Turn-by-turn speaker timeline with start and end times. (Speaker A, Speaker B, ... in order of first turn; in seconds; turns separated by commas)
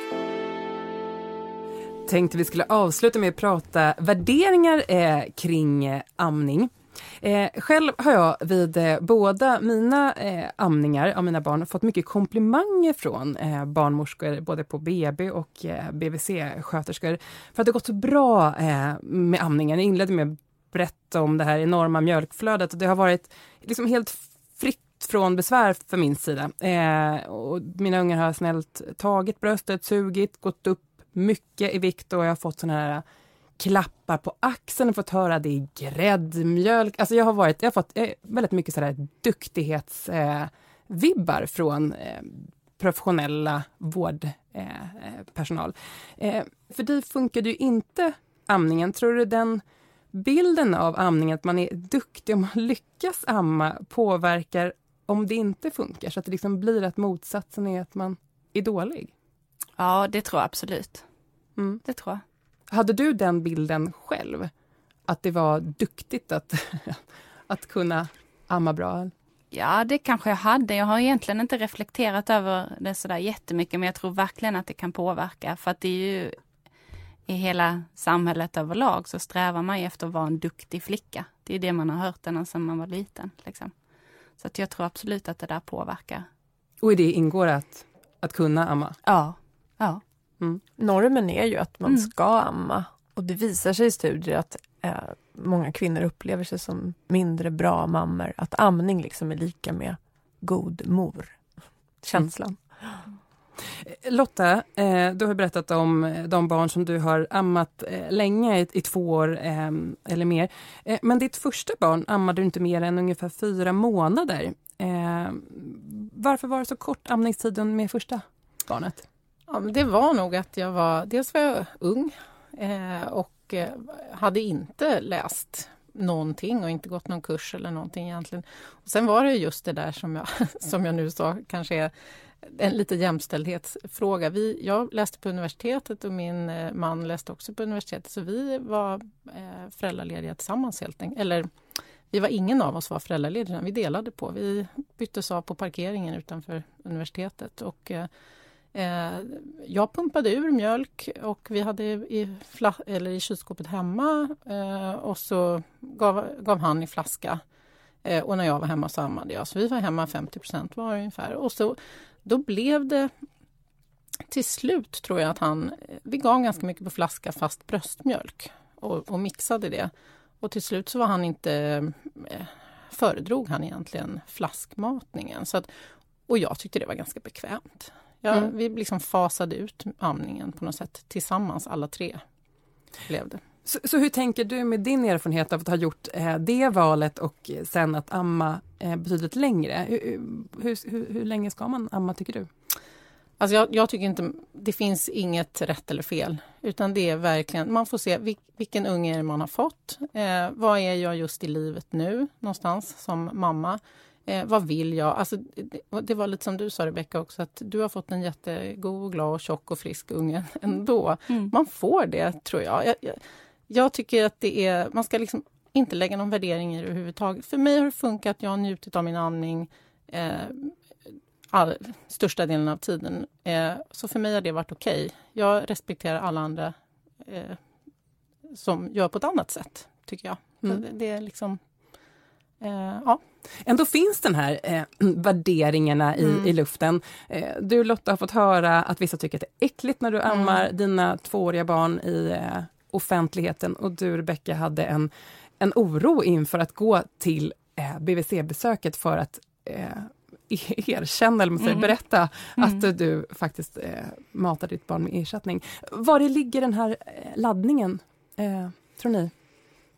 Speaker A: 2.0-33.0, Speaker A: 33.6-59.1, Speaker B: 59.8-61.0, Speaker A: 61.6-61.8, Speaker B: 61.8-62.2, Speaker A: 62.7-64.5, Speaker A: 65.1-69.1, Speaker B: 69.5-76.3, Speaker B: 77.3-83.7, Speaker B: 84.4-86.3, Speaker A: 86.8-89.0, Speaker B: 89.0-90.0, Speaker C: 90.8-101.4, Speaker C: 102.0-102.6, Speaker A: 103.8-119.0, Speaker D: 119.5-131.9, Speaker D: 132.4-141.5, Speaker D: 142.1-148.1, Speaker D: 148.7-157.4, Speaker D: 158.0-163.1, Speaker D: 164.3-175.7, Speaker D: 176.3-182.2, Speaker D: 183.1-183.4, Speaker A: 183.7-192.5, Speaker D: 193.4-220.7, Speaker D: 221.5-227.6, Speaker D: 228.5-231.6, Speaker D: 232.6-233.2, Speaker A: 233.6-259.3, Speaker B: 251.6-251.9, Speaker B: 252.6-252.9